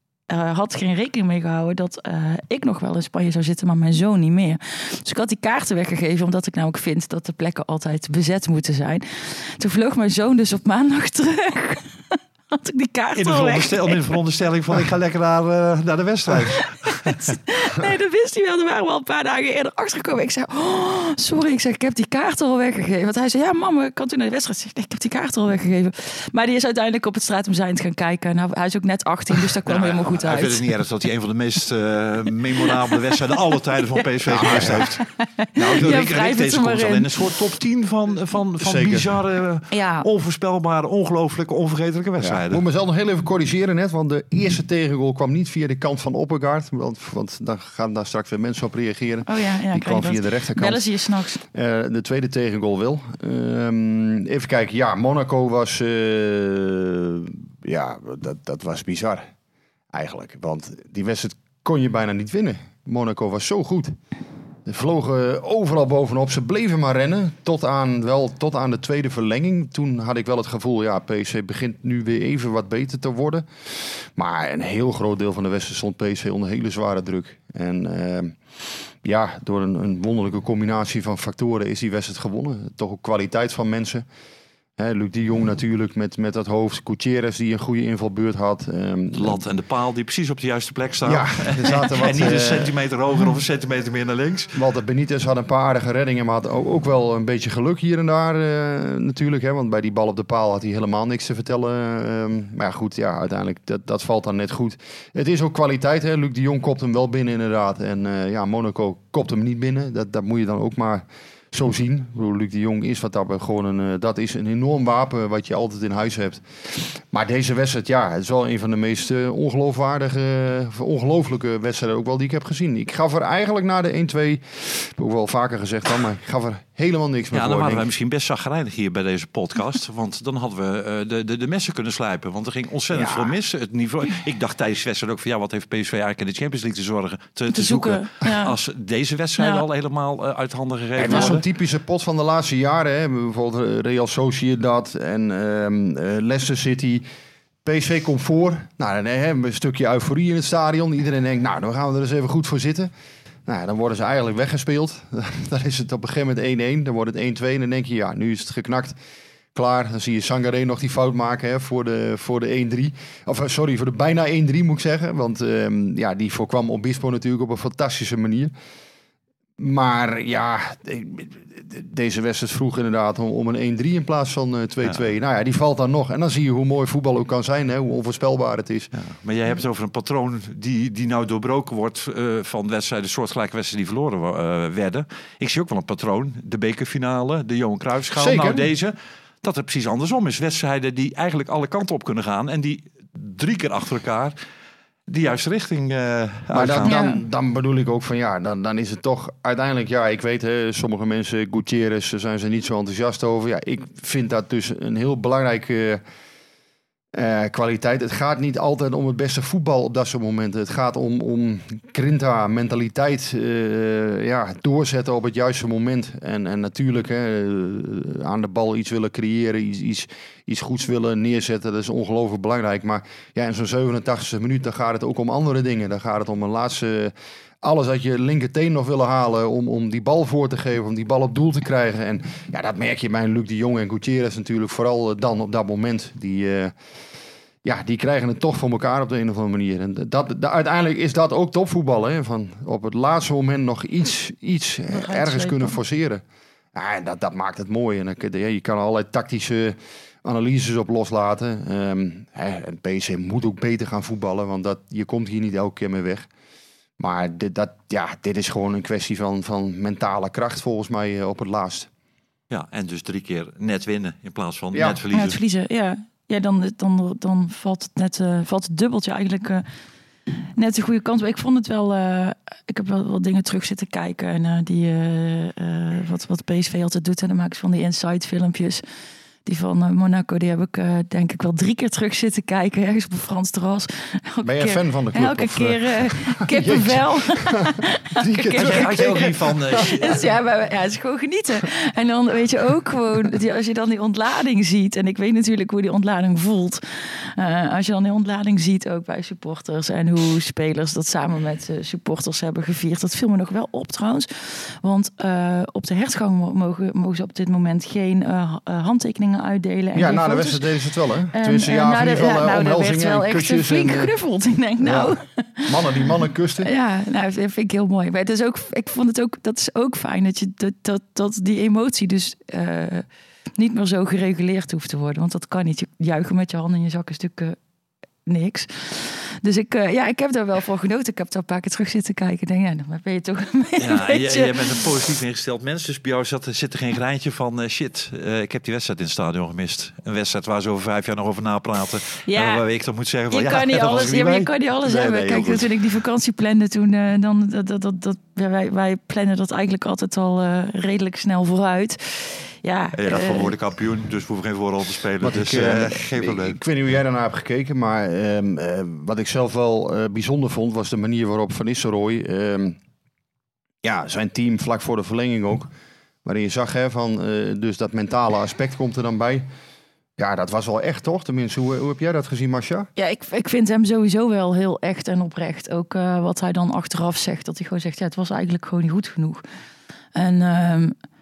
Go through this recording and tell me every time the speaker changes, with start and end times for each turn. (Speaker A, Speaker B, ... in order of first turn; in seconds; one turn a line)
Speaker A: 0.3-14.1
Speaker B: 13.2-17.3
Speaker A: 16.8-30.7
Speaker B: 29.6-35.0
Speaker A: 32.6-33.2
Speaker A: 33.8-37.1
Speaker C: 34.3-34.9
Speaker B: 35.6-42.6
Speaker C: 38.6-39.1
Speaker A: 39.7-40.1
Speaker C: 42.2-50.8
Speaker A: 49.3-51.4
Speaker C: 51.5-59.3
Speaker C: 59.9-64.0
Speaker C: 64.7-84.0
Speaker C: 84.8-89.4
Speaker B: 89.1-94.5
Speaker C: 91.0-92.7
Speaker C: 94.5-127.9
Speaker B: 127.3-141.4
Speaker C: 132.9-133.3
Speaker A: 137.5-138.5
Speaker A: 139.4-139.6
Speaker C: 141.0-147.1
Speaker C: 147.7-152.9
Speaker C: 153.5-159.0
Speaker C: 159.6-168.5
Speaker C: 169.6-178.9
Speaker B: 178.9-194.4
Speaker C: 188.2-188.7
Speaker B: 195.1-197.0
Speaker C: 196.5-206.0
Speaker A: 196.8-197.2
Speaker C: 207.1-236.7
Speaker C: 237.6-246.2
Speaker A: 244.9-245.8
Speaker C: 246.7-256.3
Speaker C: 257.0-261.9
Speaker B: 262.5-265.4
Speaker C: 264.7-265.0
Speaker A: 265.1-269.6
Speaker A: 270.6-278.8
Speaker A: 279.4-310.6
Speaker C: 284.4-290.1
Speaker B: 288.6-290.3
Speaker C: 309.9-314.1
Speaker A: 311.3-315.7
Speaker C: 314.8-315.1
Speaker C: 315.6-316.7
Speaker A: 316.6-327.6
Speaker A: 328.3-334.8
Speaker B: 333.8-345.7
Speaker A: 342.3-342.6
Speaker A: 343.3-353.5
Speaker B: 352.9-356.6
Speaker C: 355.2-362.8
Speaker C: 363.8-365.7
Speaker C: 366.2-369.5
Speaker C: 370.2-372.9
Speaker A: 373.0-379.4
Speaker A: 380.1-380.9